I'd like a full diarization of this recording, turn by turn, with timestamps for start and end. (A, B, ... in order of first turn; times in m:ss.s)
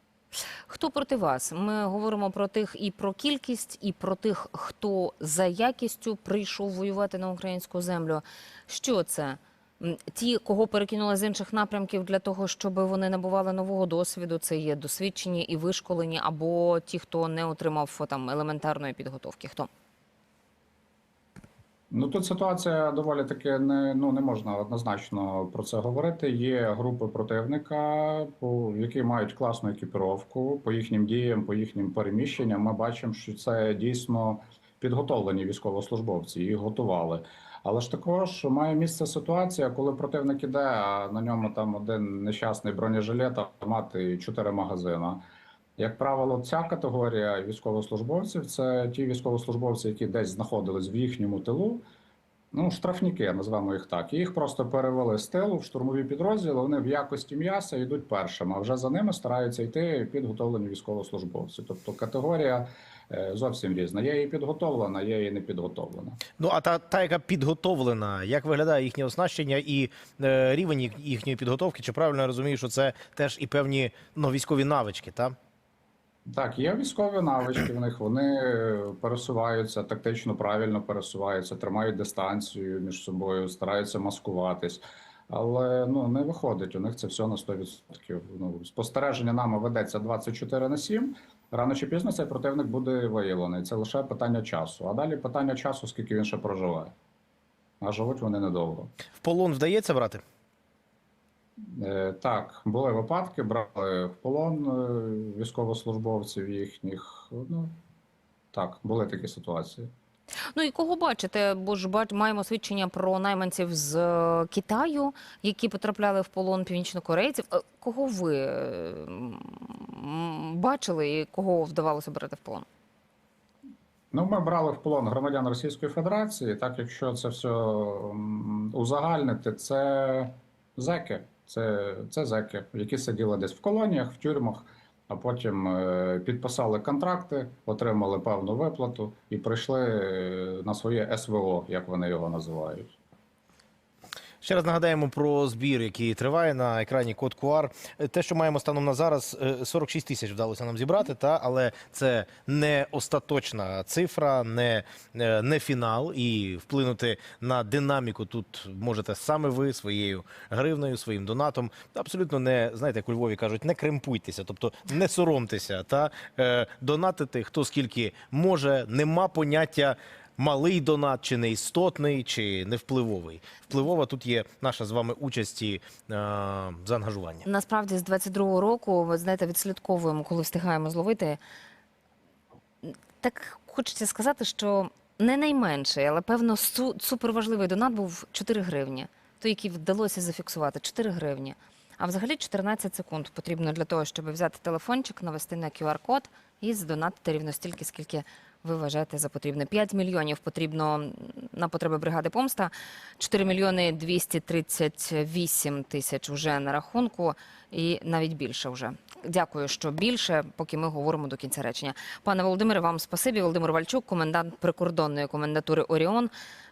0:00.7-0:19.7 A
0:21.9-0:45.2 B
0:45.8-0:51.8 B
0:52.5-1:06.2 B
1:06.4-1:15.4 C
1:16.3-1:36.9 B
1:37.8-1:38.9 B
1:39.2-1:40.2 C
1:41.7-1:47.8 B
1:48.5-1:49.9 B
1:50.5-2:02.6 A
2:04.1-2:22.9 B
2:24.4-2:57.4 C
2:57.4-3:01.4 A
3:02.8-3:36.3 A